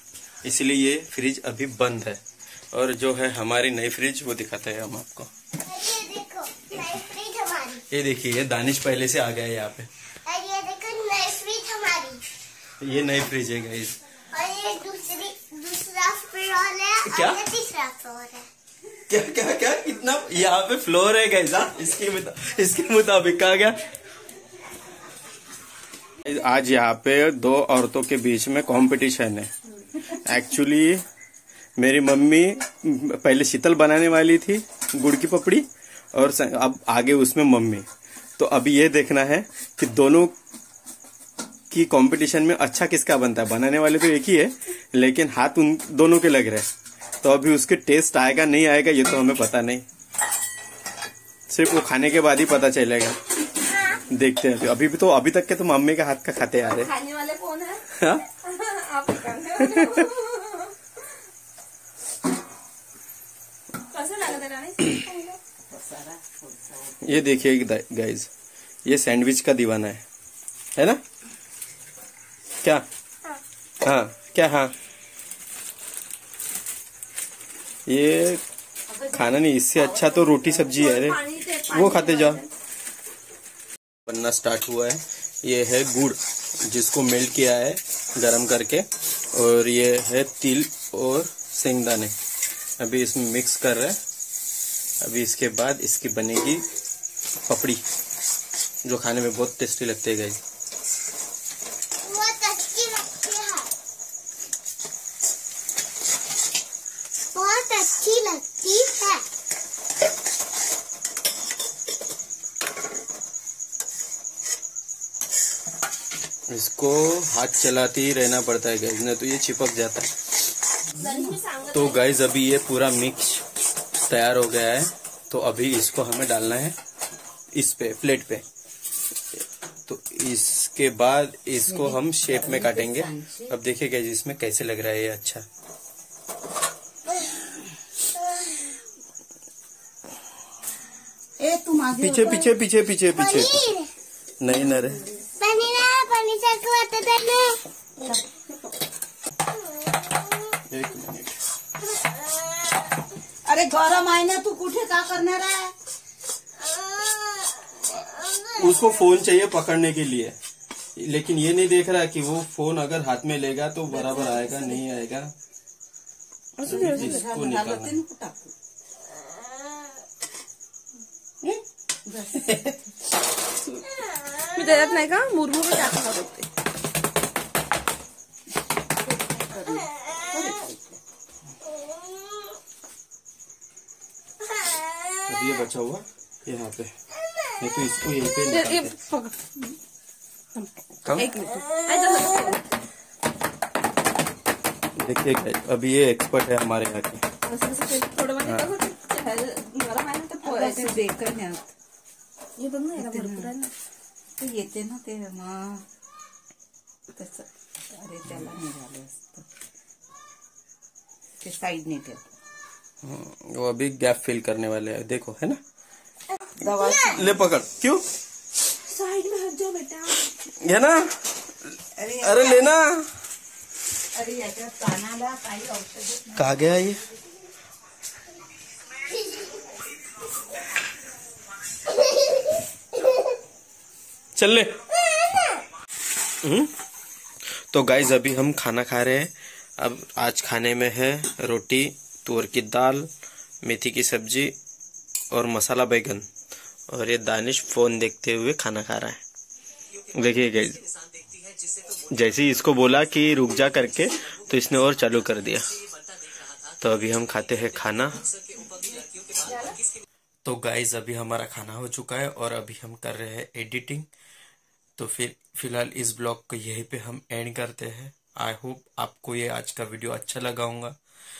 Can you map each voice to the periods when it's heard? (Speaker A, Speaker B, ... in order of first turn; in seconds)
Speaker A: 0.4-5.3, 7.9-9.9, 12.8-14.0, 17.1-17.4, 19.1-23.8, 26.2-31.0, 31.8-37.9, 38.4-40.3, 41.7-46.7, 47.2-49.8, 51.5-53.2, 54.1-56.9, 57.9-58.2, 59.6-60.0, 67.0-68.3, 68.8-70.0, 70.8-71.0, 73.8-74.7, 77.9-78.4, 79.1-82.4, 84.0-92.1, 92.8-94.0, 95.0-96.6, 97.5-97.8, 98.8-100.4, 116.5-120.1, 121.7-123.4, 124.1-126.8, 127.5-128.4, 129.8-135.4, 142.0-143.6, 144.4-145.0, 150.7-151.4, 158.4-160.3, 160.9-165.3, 166.6-168.0, 185.3-186.9, 187.6-189.0, 191.0-191.3, 194.9-197.2, 198.4-198.7, 213.0-215.6, 217.0-218.0, 220.6-221.3, 222.2-223.1, 226.3-227.0, 234.3-234.8, 236.4-236.7, 237.5-243.1, 243.6-244.5, 245.3-246.2, 246.9-249.2, 250.1-250.8, 252.0-255.7, 256.8-258.2, 260.4-264.1, 265.0-271.0
Speaker B: 5.5-7.8, 10.2-12.2, 14.3-18.4, 53.7-54.0, 64.9-65.4, 102.0-103.7, 107.3-109.2, 138.2-138.7, 143.0-143.9, 145.4-147.6, 157.0-157.5
Speaker C: 56.7-60.8, 63.9-65.0, 80.3-82.5, 121.0-122.0, 166.6-167.3, 174.5-176.5, 188.5-189.5, 190.6-192.6, 197.4-201.0, 202.6-203.7, 218.8-220.2, 259.4-259.8
Speaker D: 65.7-67.0, 78.9-79.9, 131.6-133.5, 141.4-142.5, 148.0-148.2, 153.4-155.7, 163.9-164.8, 166.7-168.5, 171.4-172.9, 179.0-181.0, 200.4-201.7, 202.9-203.6, 204.4-205.8, 207.1-209.4, 211.4-212.2, 216.6-217.5, 221.9-222.7, 224.1-226.5